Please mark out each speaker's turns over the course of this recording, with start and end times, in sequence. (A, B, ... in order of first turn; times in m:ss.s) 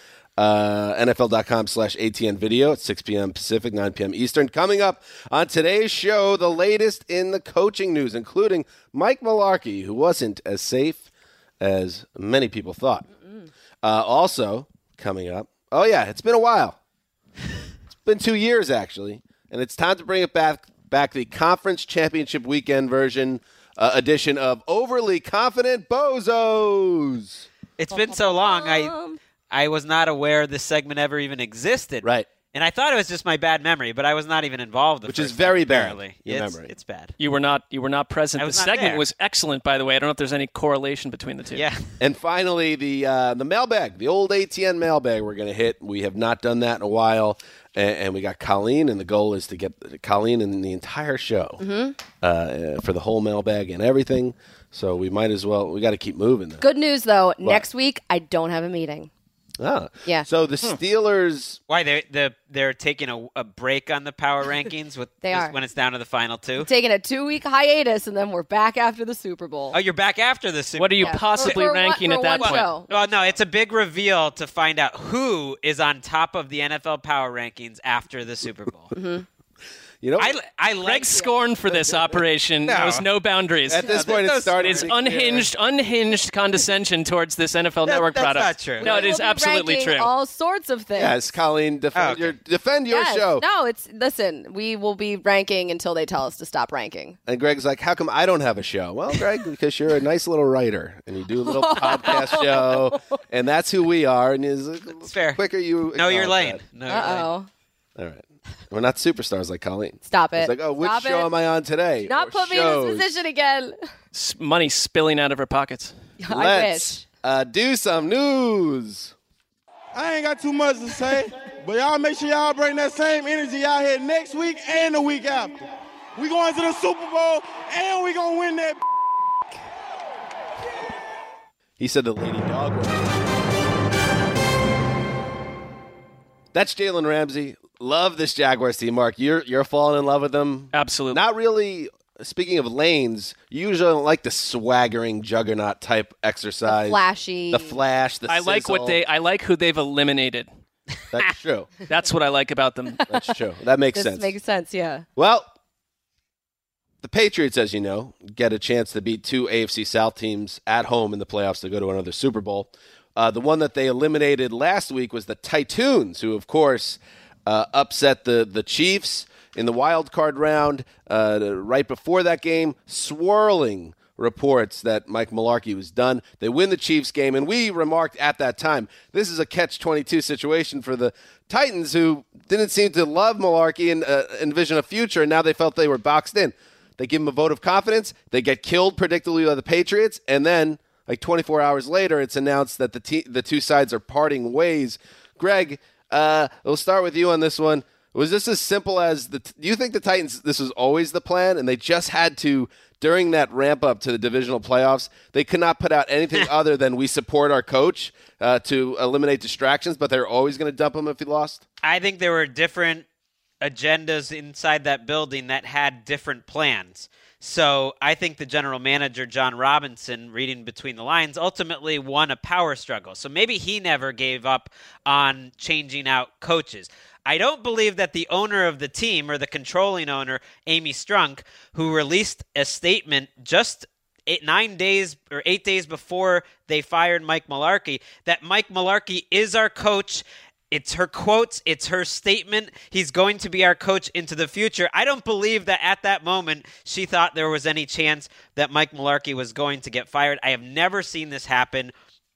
0:00.4-0:11.0 A
0:11.6-0:13.0 A
0:13.8-0:16.8 A
0:18.0-0:27.5 A
0:27.8-0:28.9 B
0:27.9-0:29.2 C
0:29.5-0:37.1 B
0:32.0-0:32.3 A
0:35.0-0:36.7 A
0:37.2-0:41.6 D
0:38.4-0:39.0 B
0:41.5-0:41.8 B
0:42.0-0:51.6 A
0:51.6-0:52.0 C
0:52.2-0:56.6 A
0:56.6-0:59.1 C
0:59.6-1:01.6 A
1:01.7-1:06.7 B
1:05.2-1:05.5 C
1:06.6-1:09.8 C
1:09.7-1:11.7 B
1:10.8-1:12.7 D
1:11.0-1:13.3 C
1:12.4-1:18.9 B
1:18.9-1:19.2 C
1:20.0-1:20.4 A
1:20.2-1:21.3 B
1:20.8-1:24.0 D
1:21.7-1:22.0 A
1:22.7-1:23.0 B
1:23.7-1:25.5 A
1:23.8-1:24.8 B
1:24.5-1:30.1 D
1:27.8-1:29.0 B
1:28.8-1:31.2 C
1:30.9-1:33.4 A
1:31.9-1:32.3 B
1:32.9-1:37.2 C
1:37.3-1:46.6 A
1:41.4-1:43.0 C
1:45.0-1:45.4 B
1:45.9-1:47.3 B
1:46.9-1:47.5 C
1:48.0-1:53.1 A
1:50.0-1:51.3 C
1:52.0-1:53.8 C
1:54.1-1:56.0 D
1:56.2-1:57.0 C
1:56.3-1:59.1 A
1:59.9-2:05.6 E
2:06.2-2:08.8 E
2:11.8-2:13.1 A
2:16.5-2:29.0 A
2:20.7-2:21.2 D
2:26.7-2:27.8 C
2:28.3-2:30.5 D
2:31.1-2:31.7 A
2:31.9-2:33.0 D
2:33.1-2:34.3 A
2:33.9-2:35.0 C
2:35.2-2:35.5 A
2:37.0-3:31.6 A
3:31.8-3:33.0 B
3:33.6-4:11.9 B